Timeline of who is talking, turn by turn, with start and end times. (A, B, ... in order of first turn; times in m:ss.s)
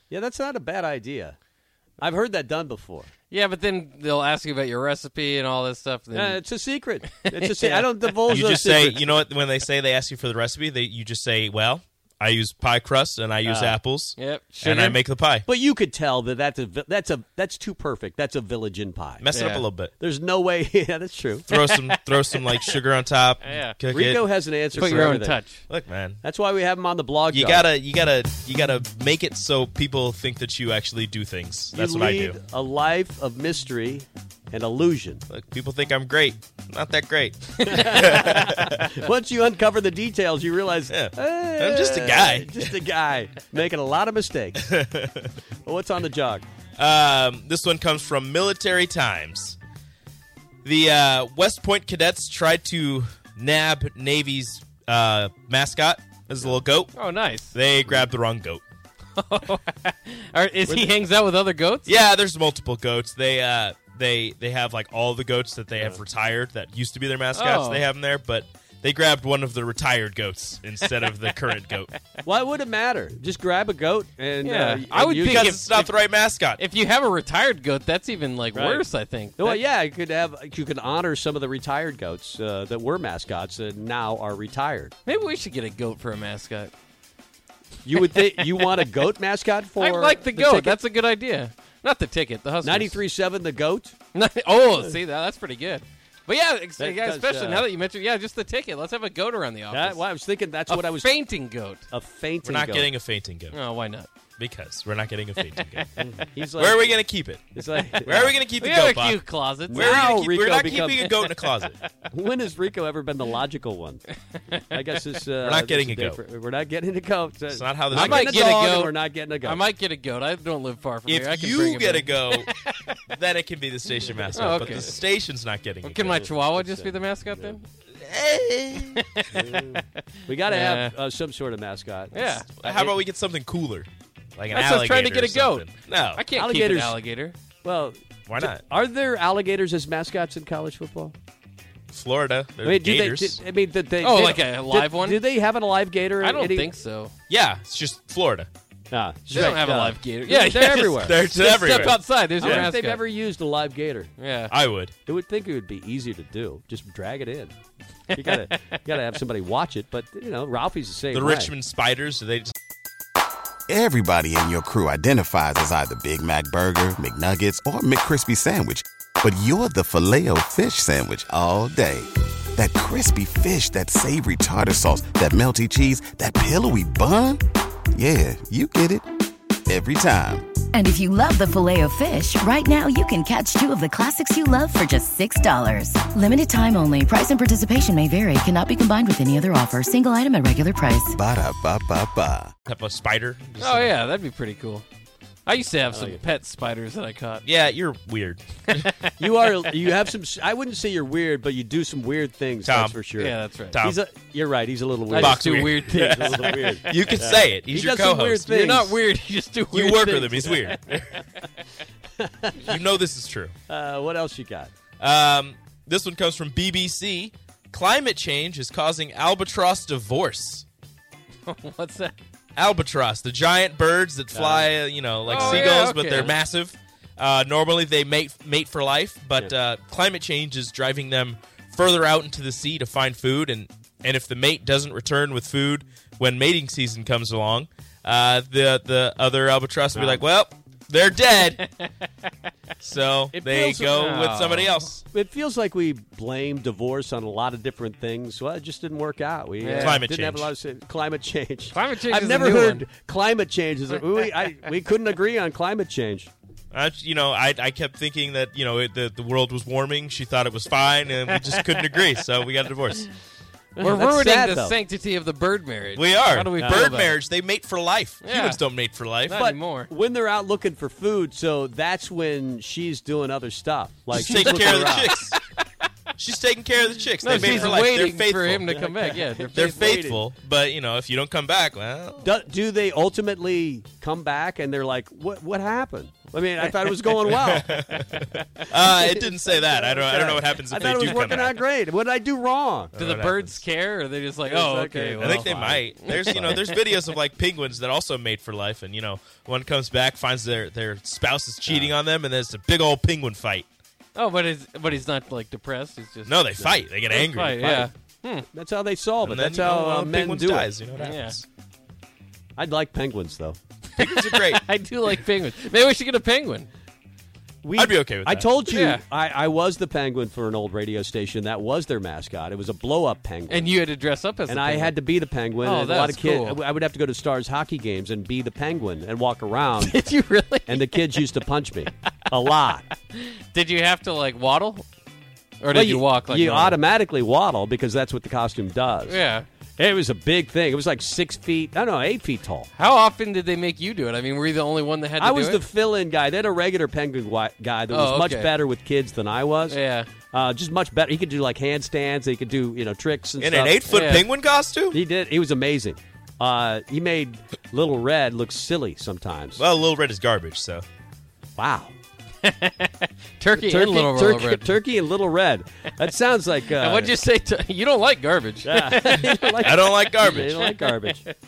0:00.1-0:01.4 A
0:02.0-0:03.1 A
0:03.3-0:06.4 B
0:06.1-0:09.0 A
0:07.1-0:08.0 B
0:08.3-0:15.5 C
0:13.4-0:13.8 A
0:14.2-0:15.0 B
0:15.5-0:19.3 A
0:19.2-0:19.9 C
0:19.3-0:19.7 B
0:20.0-0:21.5 A
0:21.5-0:24.2 C
0:21.5-0:22.7 B
0:23.4-0:23.8 B
0:23.9-0:25.4 A
0:24.8-0:25.6 B
0:25.7-0:26.2 C
0:26.2-0:27.7 A
0:27.3-0:32.4 C
0:31.7-0:35.2 A
0:35.3-0:38.8 C
0:37.6-0:44.6 A
0:40.9-0:42.8 C
0:44.6-0:45.3 C
0:45.6-0:46.5 A
0:46.8-0:49.6 C
0:50.6-0:56.9 C
0:56.9-0:57.6 B
0:57.5-0:58.6 C
0:59.2-1:02.0 B
1:01.9-1:11.9 C
1:07.3-1:07.9 B
1:12.2-1:15.5 A
1:14.4-1:15.9 B
1:15.2-1:16.6 C
1:16.6-1:19.6 B
1:18.5-1:18.8 A
1:19.4-1:24.9 A
1:25.0-1:26.7 B
1:27.8-1:30.8 A
1:29.8-1:33.0 B
1:32.6-1:34.0 A
1:34.1-1:40.0 B
1:36.8-1:37.7 A
1:39.7-1:41.1 A
1:40.7-1:41.9 B
1:41.9-1:42.9 A
1:42.4-1:43.6 C
1:43.5-1:44.1 B
1:44.4-1:51.7 C
1:46.0-1:47.0 A
1:47.5-1:48.4 A
1:48.6-1:50.0 B
1:49.7-1:51.1 A
1:52.1-1:54.0 A
1:54.7-1:59.6 A
1:55.4-1:56.2 C
1:57.5-1:58.4 C
1:57.9-2:02.9 B
2:01.1-2:02.5 C
2:03.1-2:06.2 C
2:04.0-2:04.6 A
2:04.3-2:04.9 B
2:05.8-2:07.7 B
2:06.1-2:07.6 A
2:08.0-2:09.0 C
2:09.1-2:09.8 B
2:09.3-2:12.2 A
2:10.5-2:11.0 B
2:12.1-2:13.0 B
2:12.5-2:16.2 C
2:14.5-2:17.4 B
2:16.4-2:17.0 A
2:17.6-2:21.2 A
2:18.3-2:18.6 C
2:21.9-2:23.4 C
2:22.6-2:26.7 A
2:24.0-2:25.2 B
2:26.2-2:27.1 B
2:27.3-2:28.5 C
2:28.9-2:31.2 A
2:29.3-2:33.0 B
2:31.0-2:32.7 C
2:32.4-2:34.1 A
2:34.2-2:34.5 B
2:34.5-2:35.0 C
2:35.0-2:37.5 A
2:38.1-2:41.5 A
2:38.2-2:38.7 B
2:41.1-2:42.5 C
2:43.7-2:57.4 D
2:58.0-2:59.1 D
2:59.7-3:00.5 D
3:00.7-3:11.2 E
3:11.1-3:12.5 D
3:12.7-3:14.0 C
3:13.6-3:14.9 B
3:15.5-3:17.4 B
3:15.9-3:16.2 A
3:17.4-3:18.9 C
3:18.7-3:19.2 B
3:19.2-3:29.0 A
3:22.6-3:23.0 C
3:23.2-3:23.8 B
3:23.7-3:24.0 C
3:25.1-3:27.1 B
3:25.2-3:28.5 C
3:28.5-3:30.6 B
3:29.7-3:31.2 C
3:29.8-3:30.5 A
3:32.2-3:32.8 A
3:32.6-3:33.6 C
3:33.7-3:34.7 A
3:35.0-3:40.6 C
3:41.5-3:42.2 B
3:42.6-4:01.6 C
3:44.3-3:44.8 A
3:45.3-3:46.4 B
3:45.3-3:45.7 A
3:59.9-4:00.2 A
4:02.8-4:05.0 C
4:03.3-4:04.1 A
4:03.8-4:04.9 B
4:05.0-4:16.3 A
4:09.6-4:10.0 B
4:09.8-4:10.5 C
4:11.7-4:12.8 B
4:16.7-4:23.1 C
4:23.8-4:24.8 A
4:23.8-4:27.2 B
4:26.0-4:29.4 C
4:26.6-4:27.0 A
4:28.2-4:28.6 B
4:29.3-4:29.9 B
4:29.3-4:35.1 A
4:34.1-4:35.4 C
4:34.2-4:35.4 B
4:36.2-4:38.6 C
4:37.2-4:40.0 B
4:37.3-4:37.8 A
4:38.7-4:40.2 A
4:39.5-4:42.3 C
4:42.2-4:47.8 A
4:47.2-4:51.6 C
4:48.8-4:53.0 A
4:52.9-4:53.6 C
4:53.0-4:56.8 B
4:54.4-4:56.6 A
4:55.2-5:03.7 C
5:01.7-5:02.0 A
5:04.2-5:08.5 B
5:06.3-5:07.6 C
5:07.6-5:07.9 A
5:08.5-5:10.7 A
5:09.2-5:11.5 C
5:11.0-5:11.4 B
5:12.6-5:13.6 A
5:14.0-5:14.6 C
5:14.0-5:16.7 B
5:17.6-5:23.8 A
5:17.7-5:18.5 C
5:18.7-5:19.0 B
5:23.5-5:25.0 B
5:24.5-5:30.0 A
5:25.6-5:26.6 B
5:29.8-5:31.0 B
5:30.7-5:32.9 A
5:33.1-5:34.9 B
5:35.6-5:36.8 B
5:35.7-5:39.2 A
5:39.1-5:39.5 B
5:39.8-5:42.7 A
5:42.8-5:45.6 B
5:45.2-5:49.8 A
5:47.9-5:48.5 B
5:49.7-5:50.1 B
5:50.3-5:54.1 A
5:53.4-5:55.0 C
5:53.9-5:54.3 B
5:54.9-5:59.6 A
5:59.6-6:00.8 C
6:01.6-6:01.9 A
6:02.4-6:04.8 B
6:03.5-6:07.1 A
6:06.7-6:11.3 B
6:08.6-6:11.2 A
6:09.1-6:10.6 C